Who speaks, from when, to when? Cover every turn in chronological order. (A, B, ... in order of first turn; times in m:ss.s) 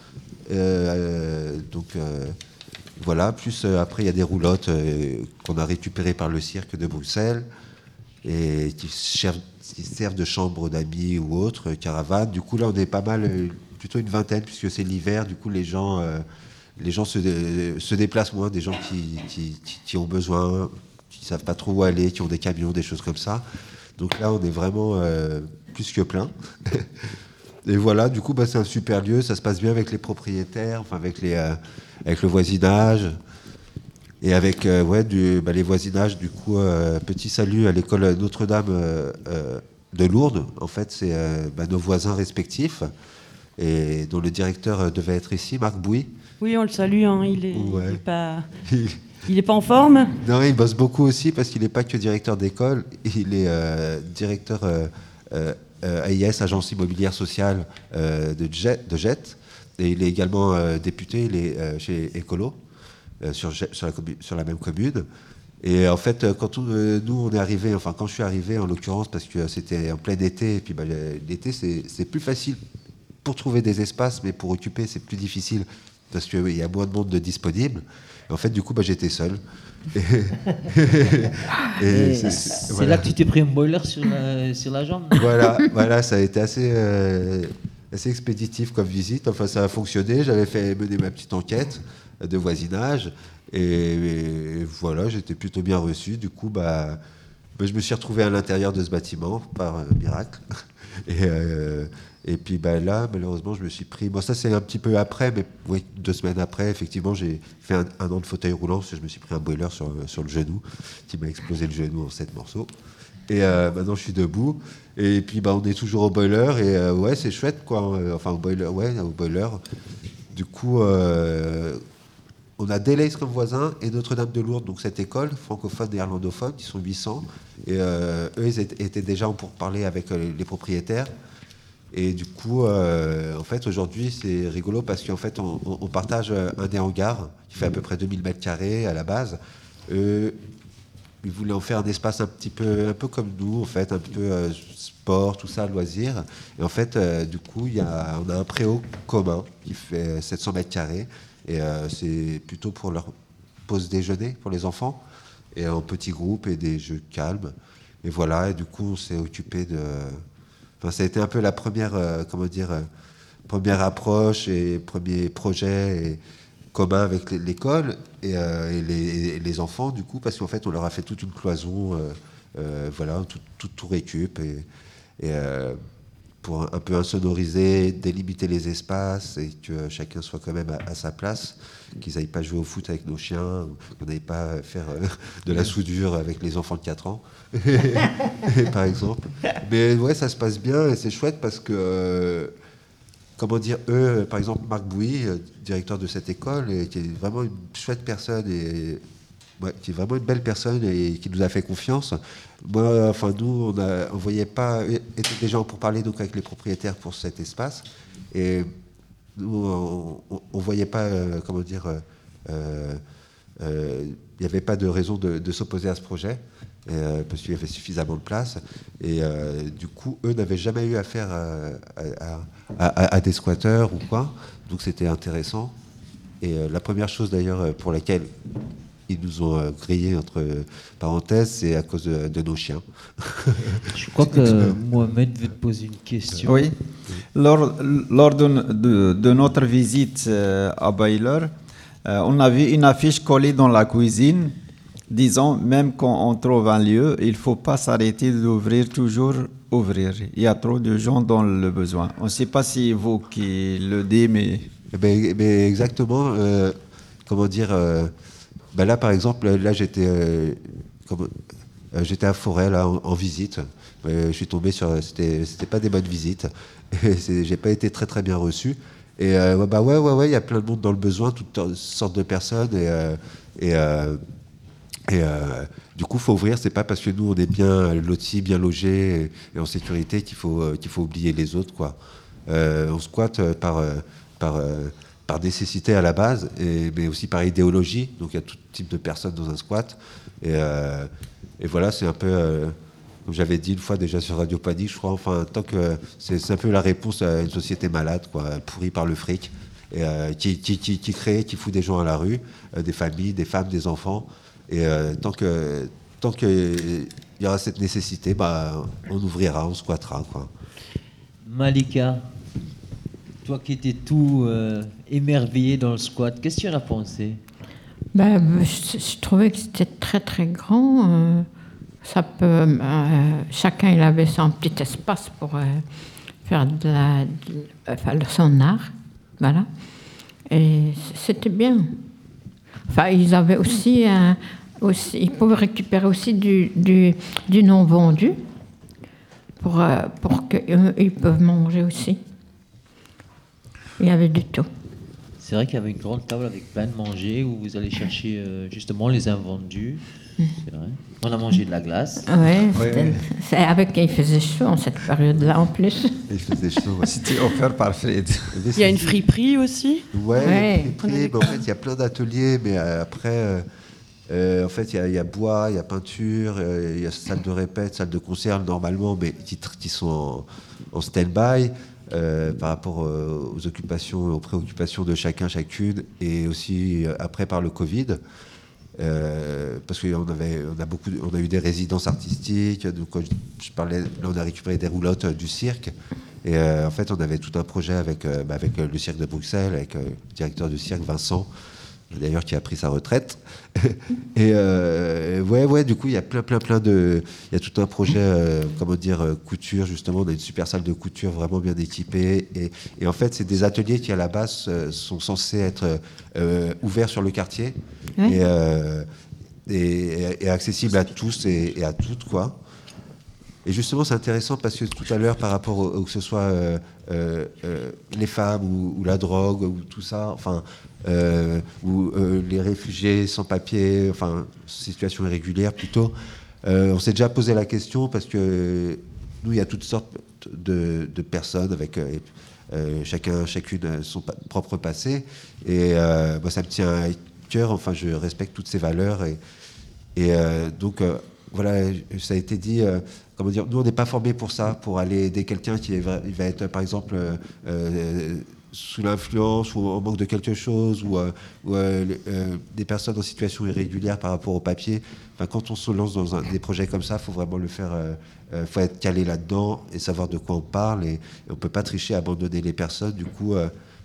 0:00.5-0:02.4 A
0:03.0-0:07.5 A
0:08.2-0:16.2 A
0:16.8-0:23.4 A
0:24.0-0:26.9 A
0:27.7-0:33.2 A
0:34.2-0:42.9 A
0:43.6-0:46.1 A
0:46.4-0:48.5 B
0:47.5-0:48.0 A
0:48.7-0:49.0 A
0:49.3-0:50.1 B
0:50.2-1:02.6 A
1:03.2-1:05.0 A
1:05.6-1:12.6 A
1:13.2-1:19.4 A
1:20.0-1:23.0 A
1:21.9-1:25.3 C
1:25.2-1:37.0 A
1:37.6-1:40.4 A
1:41.1-1:52.7 A
1:53.3-1:59.6 A
2:00.3-2:01.8 A
2:02.6-2:11.1 A
2:11.9-2:20.4 A
2:21.2-2:33.1 A
2:33.7-2:35.0 A
2:35.5-2:40.2 A
2:40.8-2:42.9 A
2:43.5-2:46.2 A
2:46.7-2:54.6 A
2:55.2-2:55.8 A
2:56.4-3:12.5 A
3:13.4-3:19.0 A
3:19.6-3:28.7 A
3:29.4-3:33.0 A
3:33.6-3:45.7 A
3:46.4-3:48.3 A
3:49.1-3:53.8 A
3:53.9-3:56.7 C
3:56.4-3:56.8 D
3:57.3-4:01.5 D
4:02.0-4:04.6 D
4:05.1-4:14.7 D
4:14.9-4:16.8 A
4:17.3-4:18.1 A
4:18.7-4:21.3 A
4:21.9-4:34.2 A
4:35.1-4:51.1 A
4:51.6-5:10.5 A
5:11.4-5:12.3 C
5:13.4-5:17.4 C
5:18.2-5:21.5 E
5:22.0-5:25.8 E
5:26.4-5:29.7 E
5:30.5-5:31.9 E
5:32.9-5:38.4 E
5:39.6-5:42.2 E
5:44.0-5:44.7 E
5:45.4-5:50.0 C
5:50.6-5:52.3 C
5:52.3-5:56.1 E
5:52.8-5:53.1 D
5:56.3-5:57.2 A
5:57.0-5:58.6 D
5:58.5-5:59.2 A
5:58.8-6:00.1 B
6:00.1-6:03.6 A
6:00.4-6:00.9 E
6:01.0-6:01.6 B
6:04.3-6:18.2 A
6:19.0-6:25.9 A
6:26.4-6:31.5 A
6:32.1-6:49.1 A
6:49.7-6:52.6 A
6:53.6-7:06.1 A
7:06.6-7:19.4 A
7:20.2-7:43.7 A